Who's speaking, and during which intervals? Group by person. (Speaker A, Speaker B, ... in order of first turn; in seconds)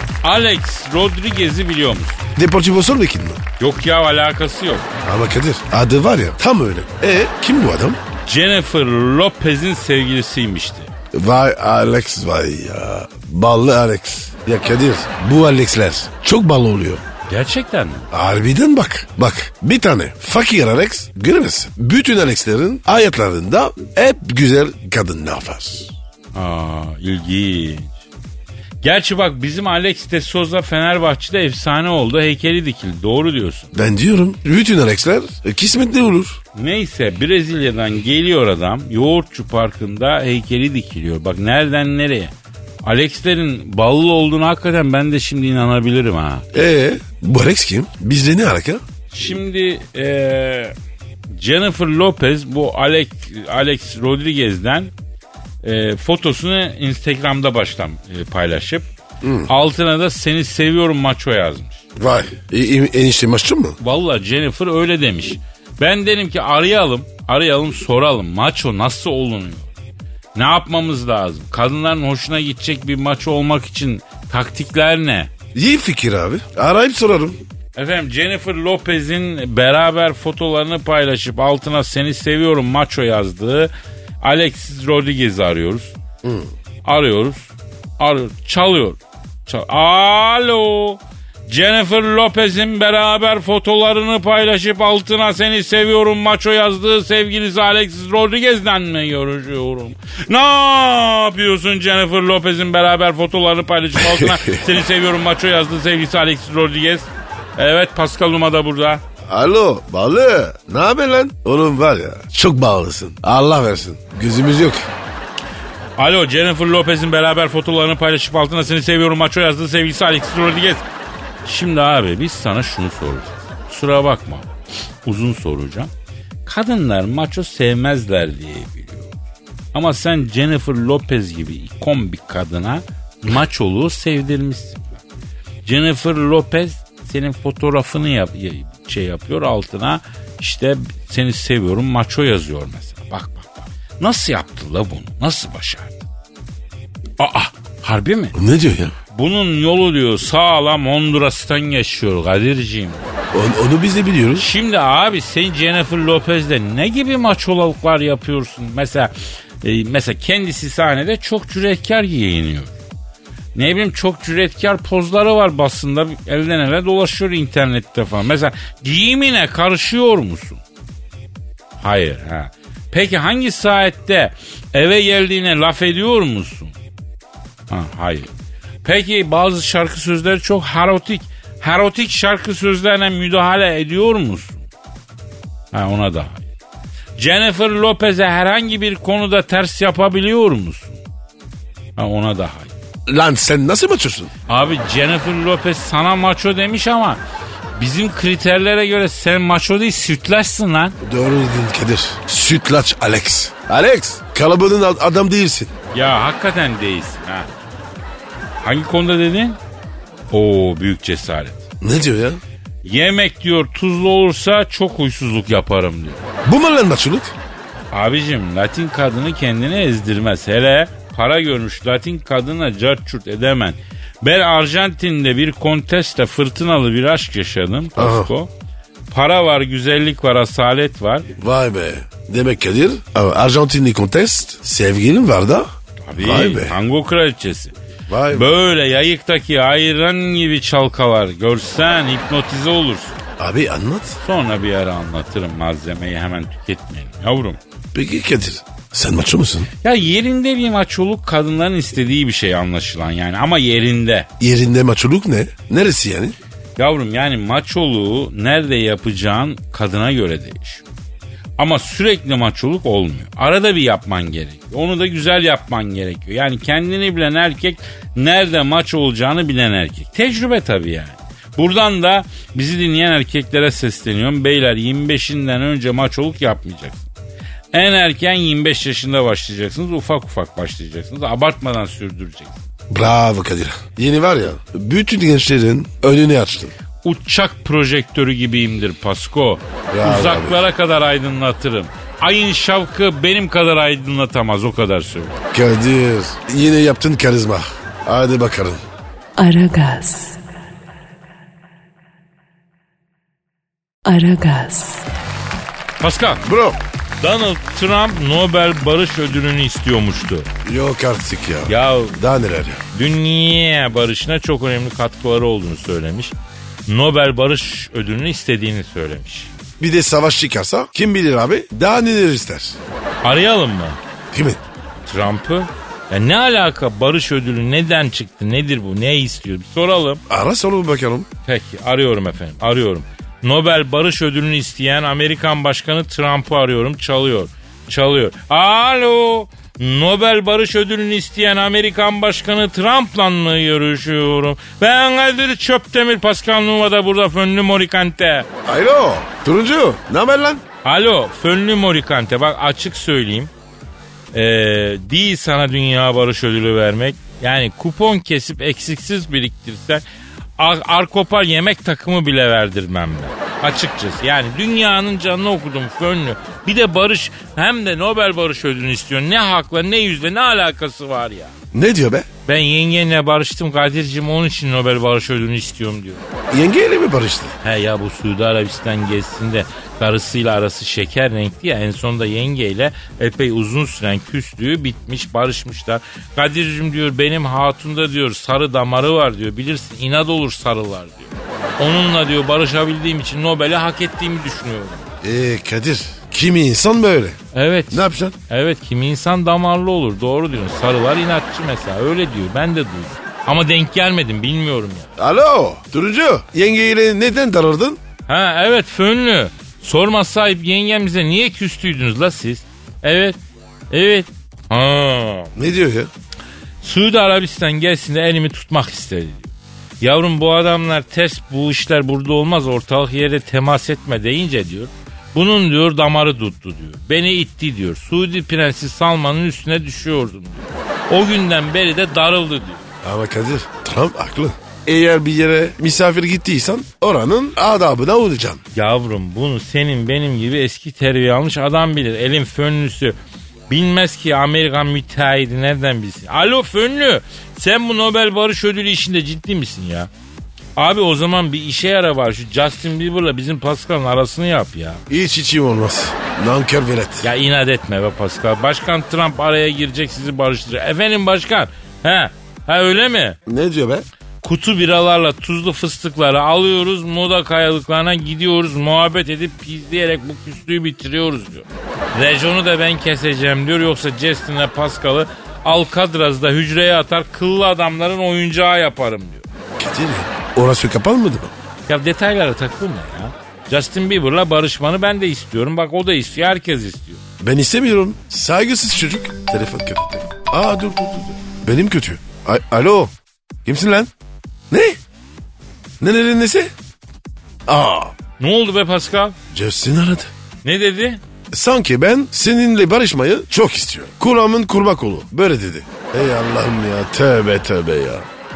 Speaker A: 0.2-2.2, 3.6-4.9, 8.2-10.9, 17.3-18.1, 26.3-27.9, 28.8-33.7, 36.5-46.5, 49.1-50.7, 51.3-54.9, 55.6-58.9, 59.5-61.8, 63.8-69.7, 70.3-75.3, 77.7-86.0, 86.8-109.0, 116.0-120.8, 121.4-124.5, 125.0-125.9, 126.5-129.2, 129.7-135.0, 135.6-146.0, 147.2-148.3, 149.1-153.1, 154.3-162.7, 163.5-170.6, 171.8-176.7, 177.7-178.3, 178.8-184.6, 185.7-186.5, 187.2-191.0, 192.0-192.7, 194.5-197.2, 197.7-201.0, 205.9-207.5, 208.6-209.6, 210.3-211.6, 212.8-216.3, 217.9-228.5, 229.1-231.3, 236.0-237.7, 238.3-243.2, 244.2-247.6, 249.8-254.3, 256.8-260.8, 261.6-277.1, 277.7-282.7, 287.0-295.4, 306.0-306.4, 307.2-310.5, 311.7-312.2, 312.9-316.3, 316.9-319.5, 323.2-324.0, 325.0-330.2, 331.4-348.5, 350.8-353.5, 354.3-360.0, 360.6-371.5, 372.5-376.2, 377.6-395.1, 397.5-405.1, 408.3-413.4, 413.9-415.5, 416.8-419.5, 420.0-432.8, 438.7-443.1, 443.7-450.1, 450.8-455.0, 457.2-463.4, 464.4-479.4, 481.9-487.2, 498.4-499.4, 500.6-501.2
Speaker B: 2.4-3.4, 5.0-8.0, 11.1-17.0, 18.1-25.9, 33.7-36.4, 46.5-48.8, 59.2-59.5, 62.0-63.8, 75.5-77.4, 86.2-86.5, 104.0-104.6, 109.3-114.9, 148.3-148.9, 153.3-154.4, 193.1-194.3, 201.0-205.7, 211.8-212.4, 216.4-217.3, 228.0-228.3, 231.4-236.7, 238.1-238.5, 243.4-244.2, 247.9-249.7, 254.4-256.4, 282.9-286.7, 289.9-290.6, 295.5-298.8, 306.4-306.8, 310.6-312.8, 319.8-322.8, 324.3-324.6, 330.3-331.3, 348.6-350.6, 371.7-372.2, 376.5-377.5, 395.2-397.4, 397.9-398.4, 405.2-408.0, 415.6-416.1, 433.0-438.6, 455.1-457.3, 463.5-464.1, 479.8-481.5, 487.4-493.1, 493.6-494.1, 494.7-495.0, 496.0-496.7, 497.7-498.1, 499.5-500.3, 501.5-508.2
Speaker C: 299.4-300.4, 304.0-305.1